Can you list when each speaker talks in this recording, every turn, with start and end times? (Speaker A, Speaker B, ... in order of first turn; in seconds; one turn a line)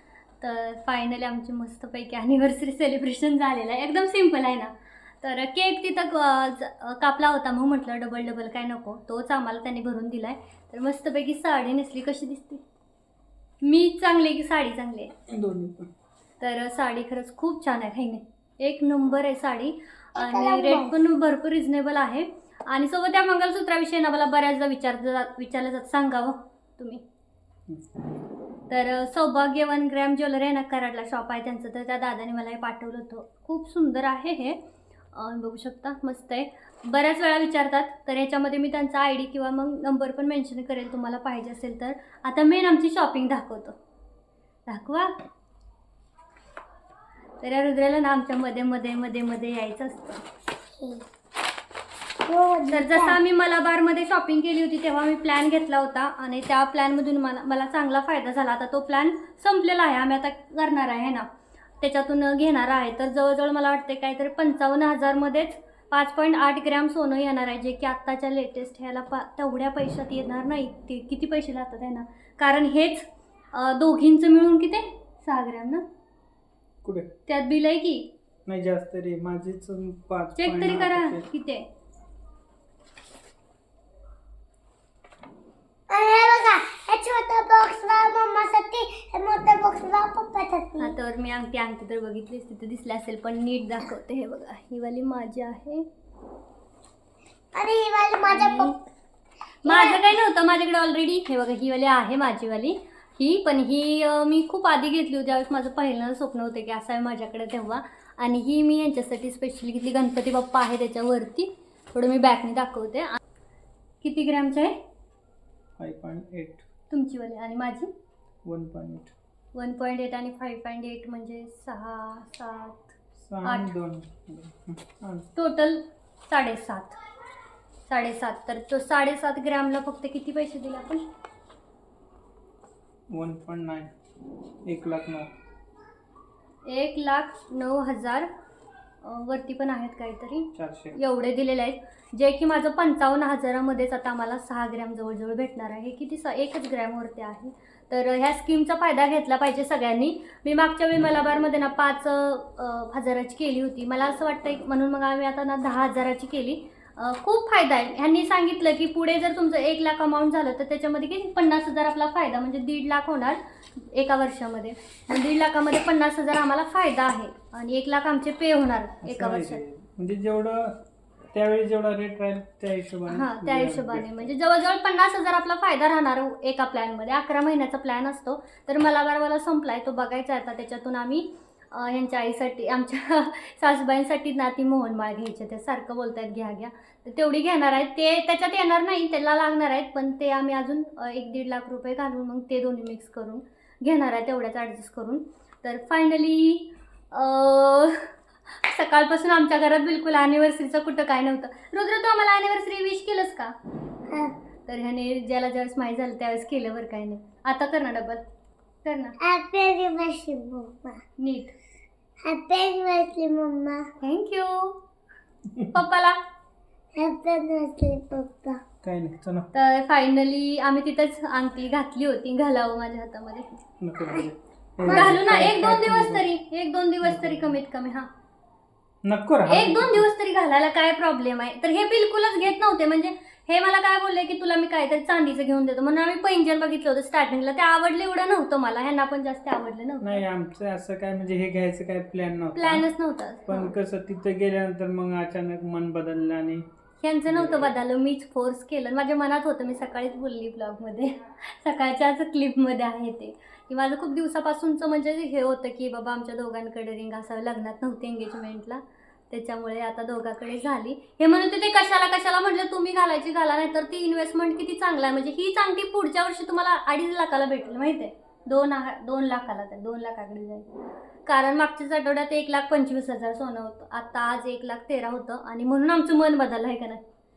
Speaker A: 0.4-12.6
Speaker A: 13.6-15.1
Speaker B: 15.3-15.9
Speaker A: 16.4-27.0
Speaker C: 20.2-21.0
Speaker A: 28.7-34.6
Speaker A: 35.1-43.8
Speaker A: 44.7-45.1
Speaker A: 47.4-50.2
Speaker C: 50.8-51.1
Speaker C: 52.2-53.2
Speaker A: 52.7-61.3
Speaker A: 61.8-75.8
Speaker A: 77.3-78.1
Speaker B: 78.5-81.3
Speaker A: 80.4-81.7
Speaker C: 85.9-90.9
Speaker A: 90.8-95.8
Speaker C: 97.5-98.8
Speaker A: 98.3-98.8
Speaker A: 99.7-113.2
Speaker C: 99.7-100.0
Speaker A: 114.0-114.8
Speaker B: 115.8-116.6
Speaker A: 116.9-117.9
Speaker B: 118.5-119.1
Speaker A: 119.5-122.9
Speaker B: 123.3-125.3
Speaker A: 123.4-123.7
Speaker A: 125.4-127.0
Speaker A: 127.9-131.0
Speaker B: 133.1-133.9
Speaker B: 134.7-135.3
Speaker A: 136.7-138.3
Speaker A: 139.0-169.6
Speaker B: 140.6-141.0
Speaker B: 169.0-170.7
Speaker B: 171.3-174.3
Speaker A: 173.1-203.5
Speaker C: 204.1-204.3
Speaker A: 204.7-208.2
Speaker A: 208.8-209.2
Speaker C: 209.2-211.0
Speaker A: 211.2-211.6
Speaker C: 212.2-213.9
Speaker A: 214.0-214.8
Speaker A: 215.7-216.2
Speaker C: 216.9-218.6
Speaker B: 218.8-219.5
Speaker A: 219.5-223.5
Speaker B: 223.8-226.3
Speaker A: 224.9-228.1
Speaker C: 224.9-225.2
Speaker B: 227.0-227.6
Speaker B: 229.1-230.1
Speaker A: 229.5-240.2
Speaker B: 240.0-242.9
Speaker A: 242.6-243.7
Speaker B: 243.5-246.7
Speaker A: 247.0-270.7
Speaker B: 247.3-247.7
Speaker A: 271.3-277.0